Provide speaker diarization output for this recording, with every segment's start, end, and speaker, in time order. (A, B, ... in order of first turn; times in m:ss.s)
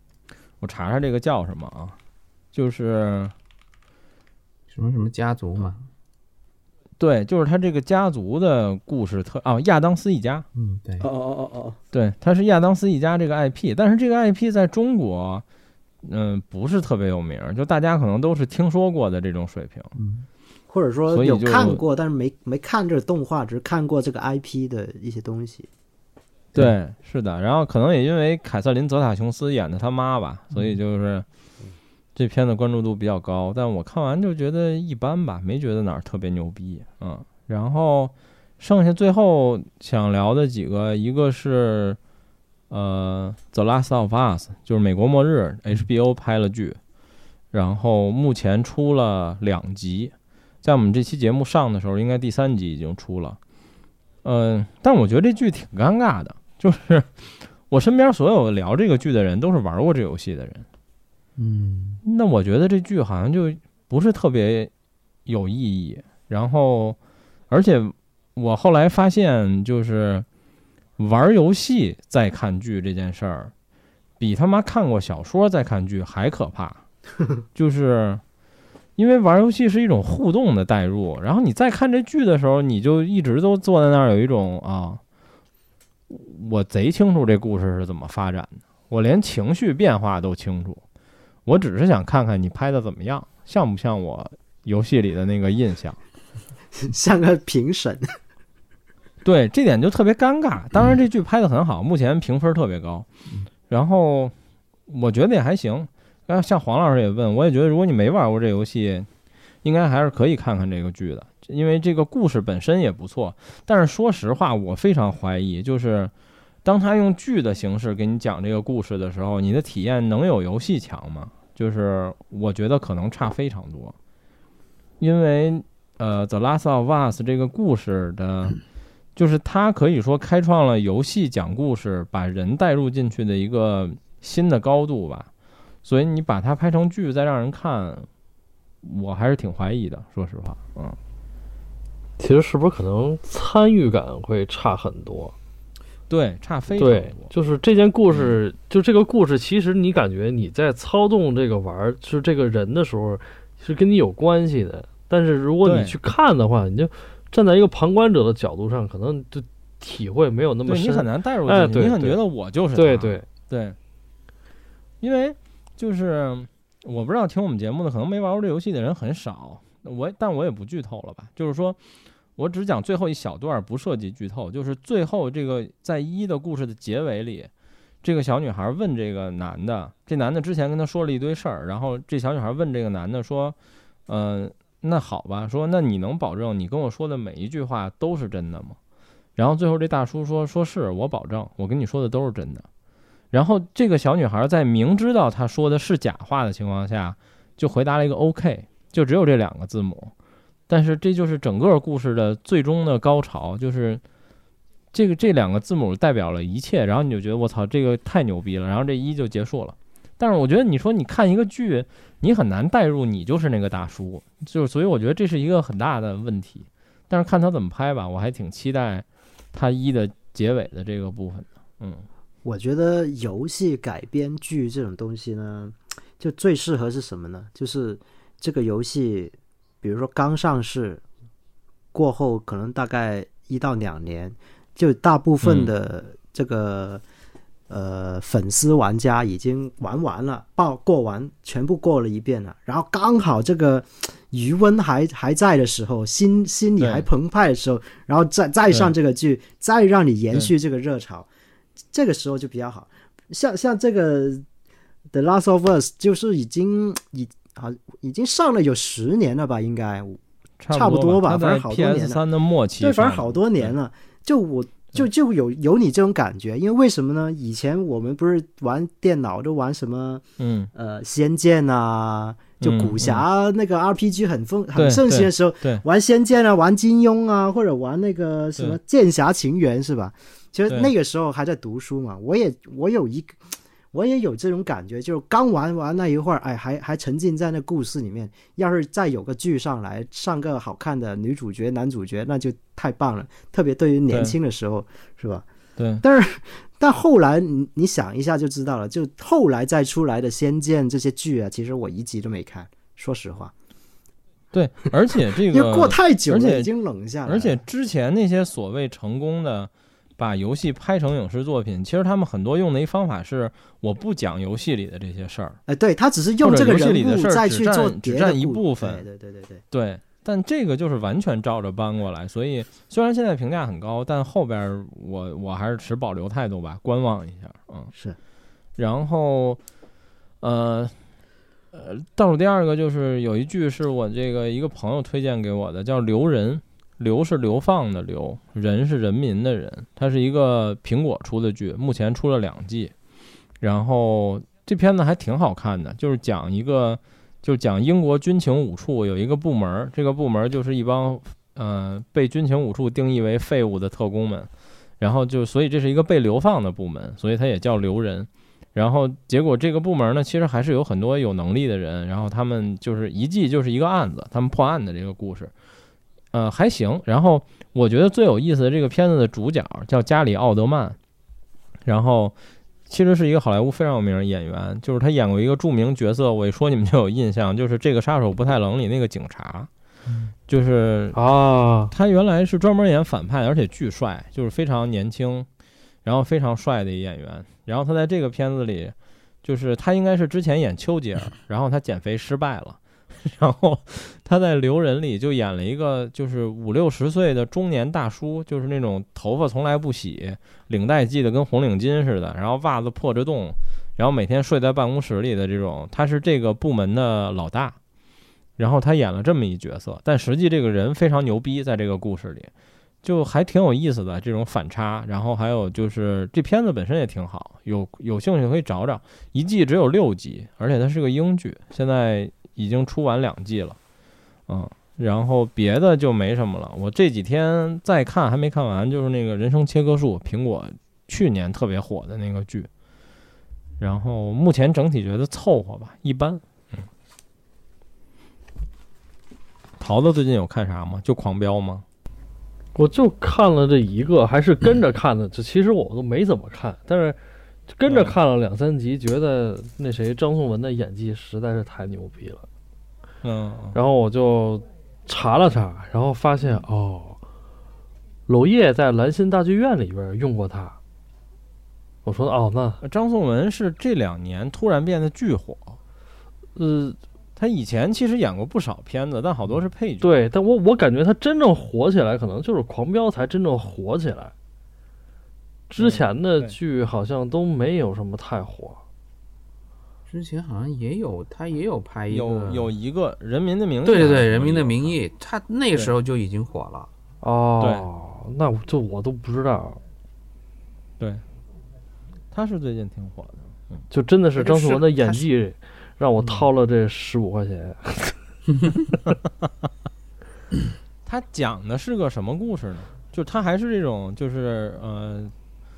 0:00.6-0:02.0 A
0:02.5-0:03.3 A
0:04.7-0:05.9 B
0:07.0-0:10.4 A
0:10.5-0:11.1 B
0:11.0-0:11.8 C
0:11.9-0:15.4 A
0:16.0-0:19.9 A
0:20.0-0:20.2 B
0:20.7-0:25.7 C
0:21.1-0:21.8 A
0:26.5-0:31.2 A
0:32.2-0:42.0 A
0:42.7-0:46.8 A
0:47.5-0:53.4 A
0:54.2-0:57.1 A
0:57.7-1:00.6 A
1:01.4-1:02.0 B
1:02.0-1:04.7 A
1:05.2-1:07.0 A
1:07.5-1:10.2 A
1:11.0-1:13.5 A
1:14.2-1:16.8 A
1:17.5-1:18.2 A
1:19.0-1:25.0 A
1:26.1-1:30.8 A
1:31.4-1:36.0 A
1:36.7-1:38.0 C
1:39.2-1:43.1 A
1:43.7-1:44.3 A
1:44.9-1:49.1 A
1:49.6-1:56.1 A
1:56.6-2:03.9 A
2:05.0-2:08.6 A
2:09.2-2:15.3 A
2:15.8-2:18.1 A
2:18.8-2:21.0 A
2:22.2-2:25.3 D
2:26.1-2:27.3 A
2:26.8-2:42.2 D
2:28.1-2:28.4 A
2:35.6-2:36.0 A
2:40.6-2:43.8 A
2:42.7-2:43.2 D
2:45.0-2:51.8 A
2:52.4-2:57.5 A
2:58.0-3:03.6 A
3:04.1-3:08.8 A
3:09.4-3:12.7 A
3:13.3-3:20.1 A
3:20.7-3:24.0 A
3:24.9-3:42.0 A
3:42.4-3:51.0 C
3:51.9-3:57.0 C
3:55.4-3:55.7 A
3:57.7-4:11.3 C
4:06.8-4:07.0 A
4:11.9-4:14.4 C
4:15.1-4:20.2 C
4:20.6-4:23.7 A
4:20.7-4:22.2 C
4:22.8-4:30.2 C
4:30.4-4:30.7 A
4:30.7-4:55.4 C
4:32.6-4:33.2 A
4:34.8-4:35.8 A
4:54.1-4:54.3 A
4:55.8-4:56.0 A
4:56.0-5:03.5 C
5:04.5-5:06.7 A
5:05.4-5:07.6 C
5:07.2-5:15.6 A
5:15.7-5:19.6 C
5:16.4-5:19.0 A
5:19.7-5:27.9 A
5:28.8-5:29.6 A
5:30.4-5:30.9 A
5:31.7-5:42.9 A
5:43.6-5:54.5 A
5:55.0-6:05.5 A
6:06.3-6:11.0 A
6:11.8-6:12.3 A
6:12.9-6:19.7 A
6:20.5-6:21.2 A
6:21.1-6:21.9 D
6:21.9-6:25.5 A
6:26.0-6:47.8 A
6:48.6-6:52.5 A
6:53.0-7:03.8 A
7:04.5-7:12.7 A
7:13.8-7:16.8 A
7:19.8-7:21.8 A
7:22.7-7:27.2 D
7:27.7-7:32.4 D
7:27.8-7:28.2 A
7:33.2-7:33.8 A
7:33.7-7:37.2 D
7:38.3-7:40.8 D
7:42.0-7:42.8 D
7:42.8-7:45.8 A
7:46.5-7:47.0 D
7:47.4-7:50.1 A
7:50.0-7:54.3 D
7:55.7-7:58.8 D
7:55.8-7:56.5 A
8:00.1-8:02.7 B
8:02.1-8:05.0 A
8:03.8-8:06.9 B
8:07.2-8:09.8 D
8:07.6-8:07.9 A
8:12.3-8:13.8 A
8:13.9-8:18.2 D
8:14.4-8:15.2 B
8:21.0-8:25.3 A